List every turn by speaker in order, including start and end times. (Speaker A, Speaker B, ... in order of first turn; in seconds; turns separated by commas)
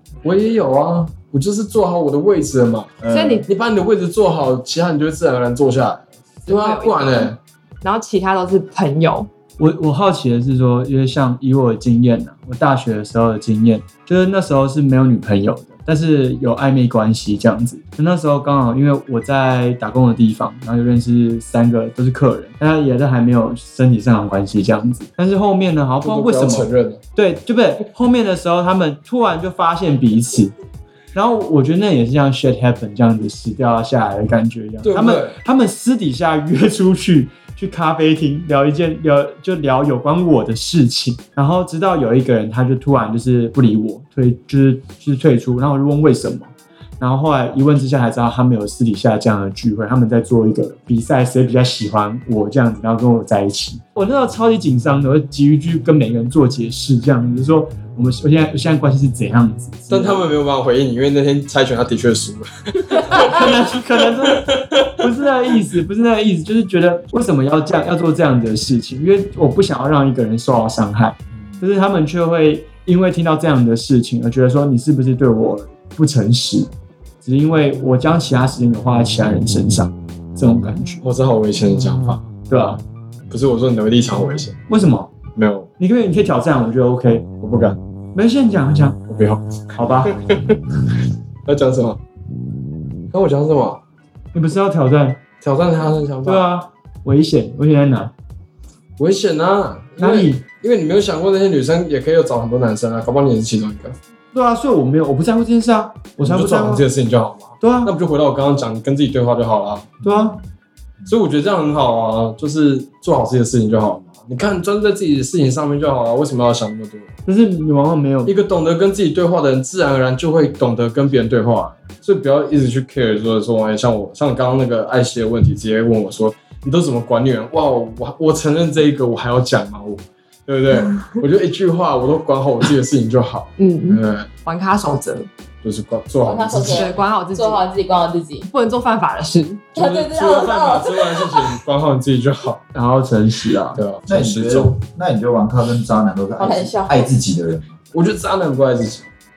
Speaker A: 0.2-7.4, Speaker B: 3.0-3.5, Speaker C: 3.1-3.5, Speaker C: 6.5-9.3, Speaker D: 9.6-30.5, Speaker A: 26.0-27.0, Speaker D: 31.1-60.3, Speaker A: 34.8-35.4, Speaker A: 59.9-63.5, Speaker D: 63.1-76.7, Speaker A: 64.3-64.9, Speaker D: 77.2-81.0, Speaker A: 81.0-82.2, Speaker D: 82.5-82.8, Speaker A: 83.3-84.6, Speaker D: 84.7-85.1, Speaker A: 85.3-85.7, Speaker D: 85.8-87.3, Speaker A: 87.4-87.8, Speaker D: 88.2-89.0, Speaker A: 89.1-90.6, Speaker D: 89.7-90.2, Speaker A: 91.5-92.0, Speaker A: 93.1-93.8, Speaker D: 94.3-95.2, Speaker A: 95.4-96.5, Speaker D: 96.2-98.1, Speaker A: 99.0-104.0, Speaker D: 100.0-100.4, Speaker D: 104.3-106.9, Speaker A: 106.2-109.9, Speaker D: 107.6-107.9, Speaker D: 110.0-110.4, Speaker B: 110.0-110.4, Speaker A: 111.1-117.2, Speaker D: 117.3-118.3, Speaker A: 118.2-134.3, Speaker C: 133.6-135.3, Speaker A: 135.6-136.9, Speaker E: 136.2-138.5, Speaker C: 136.6-137.7, Speaker C: 138.5-139.7, Speaker E: 139.8-141.6, Speaker A: 139.8-142.6, Speaker D: 142.7-143.8, Speaker A: 143.8-144.8, Speaker B: 144.1-147.7, Speaker E: 146.4-147.1, Speaker A: 147.9-149.1